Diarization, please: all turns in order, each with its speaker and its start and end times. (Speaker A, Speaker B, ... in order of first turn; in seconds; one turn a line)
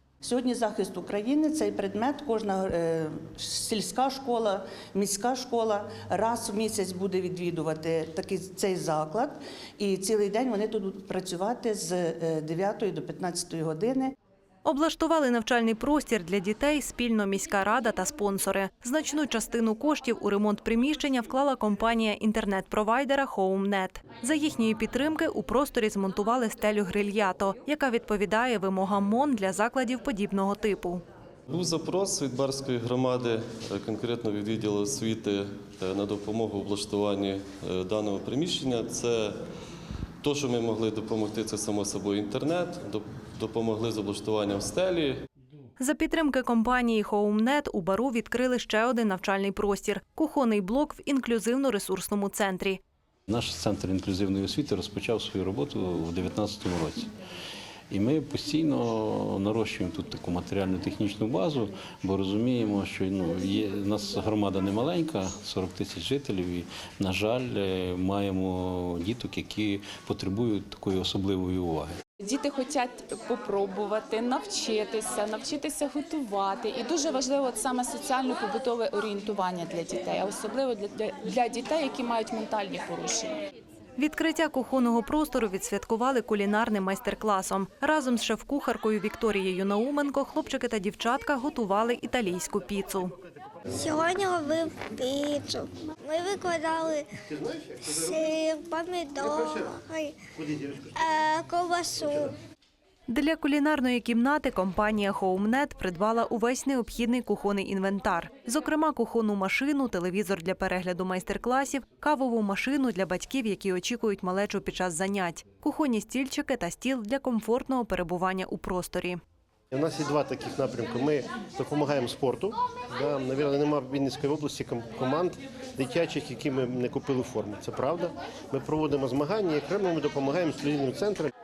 Speaker A: 0.2-14.1
Speaker B: 14.6-31.0
Speaker C: 31.5-39.4
Speaker C: 40.2-45.1
Speaker B: 45.8-52.8
Speaker D: 53.3-57.1
Speaker D: 57.9-71.9
Speaker E: 72.2-83.3
Speaker B: 84.0-93.1
Speaker F: 93.7-97.1
Speaker G: 97.3-98.3
Speaker F: 97.8-100.2
Speaker G: 99.2-99.8
Speaker G: 100.3-101.2
Speaker F: 101.0-102.3
Speaker G: 102.0-102.3
Speaker B: 103.1-119.2
Speaker G: 119.7-131.3